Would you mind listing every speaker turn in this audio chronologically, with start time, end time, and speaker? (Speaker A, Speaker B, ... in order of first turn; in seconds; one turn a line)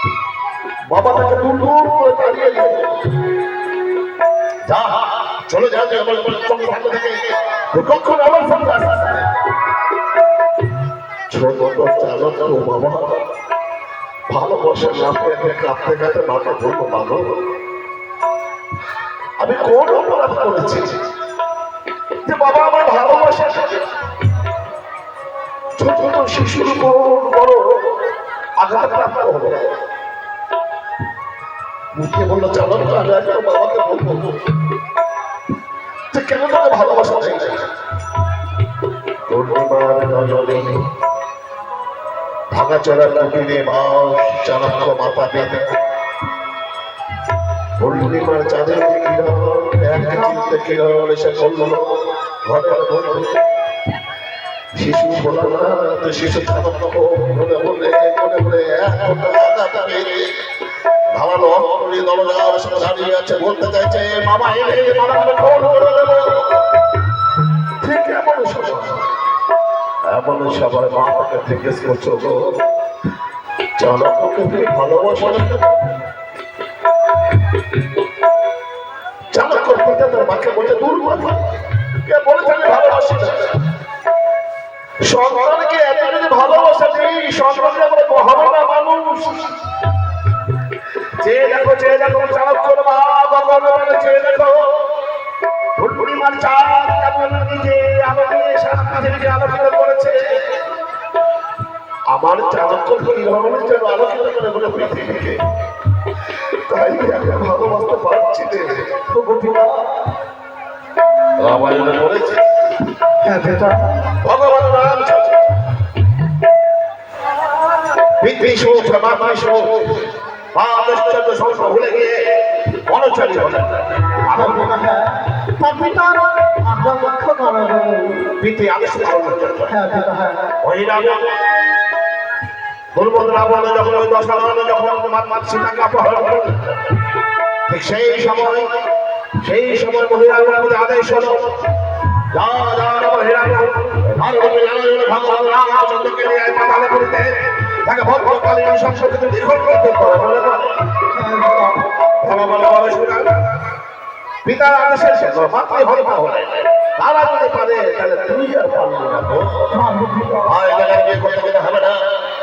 Speaker A: 0.9-3.2
Speaker A: 4.7-9.3
Speaker A: 11.3-13.2
Speaker A: 14.3-17.4
Speaker A: 19.4-21.0
Speaker A: 22.2-23.9
Speaker A: 25.8-28.0
Speaker A: 28.6-29.7
Speaker A: 31.9-34.4
Speaker A: 36.1-37.7
Speaker A: 39.3-40.9
Speaker A: 42.5-45.8
Speaker A: 47.8-53.4
Speaker A: 54.7-60.3
Speaker A: 61.1-66.6
Speaker A: 67.8-69.1
Speaker A: 70.0-72.6
Speaker A: 73.8-75.8
Speaker A: 79.3-83.6
Speaker A: 85.0-89.6
Speaker A: 91.2-94.7
Speaker A: 95.8-100.4
Speaker A: 102.1-105.4
Speaker A: 106.7-109.0
Speaker B: 109.1-109.9
Speaker A: 111.4-112.4
Speaker B: 113.2-113.9
Speaker A: 114.1-115.4
Speaker A: 118.2-124.7
Speaker B: 124.3-128.3
Speaker A: 128.4-129.7
Speaker B: 129.7-130.6
Speaker A: 130.6-131.3
Speaker A: 132.9-136.8
Speaker A: 137.7-138.7
Speaker A: 139.4-141.6
Speaker A: 142.3-150.8
Speaker B: 151.1-151.9
Speaker A: 152.2-153.4
Speaker A: 154.4-159.7
Speaker B: 159.7-160.5
Speaker A: 160.4-162.0